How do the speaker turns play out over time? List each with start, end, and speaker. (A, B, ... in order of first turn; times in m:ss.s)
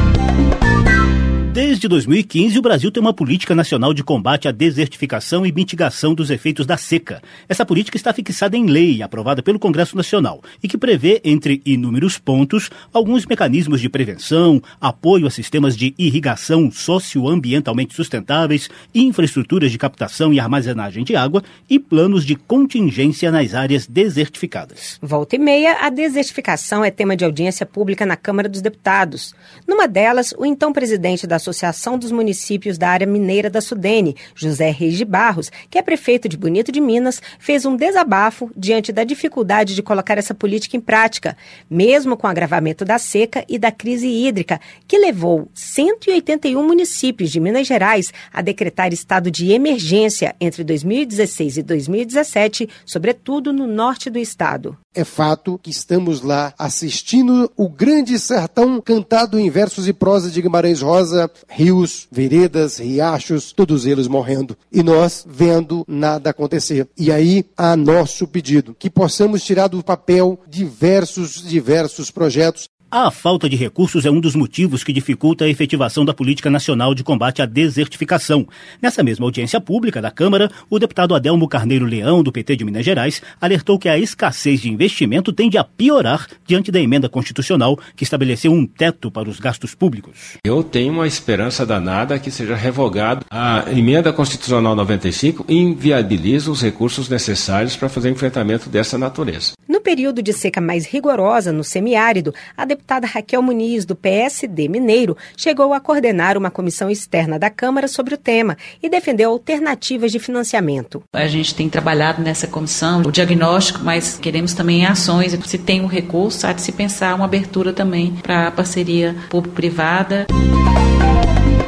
0:01.5-0:25.0 A
0:25.0-0:54.8 B
0:55.0-1:12.7 C
1:12.9-1:30.4 A
1:30.4-1:39.5 D
1:39.7-1:51.0 B
1:51.2-2:00.3 E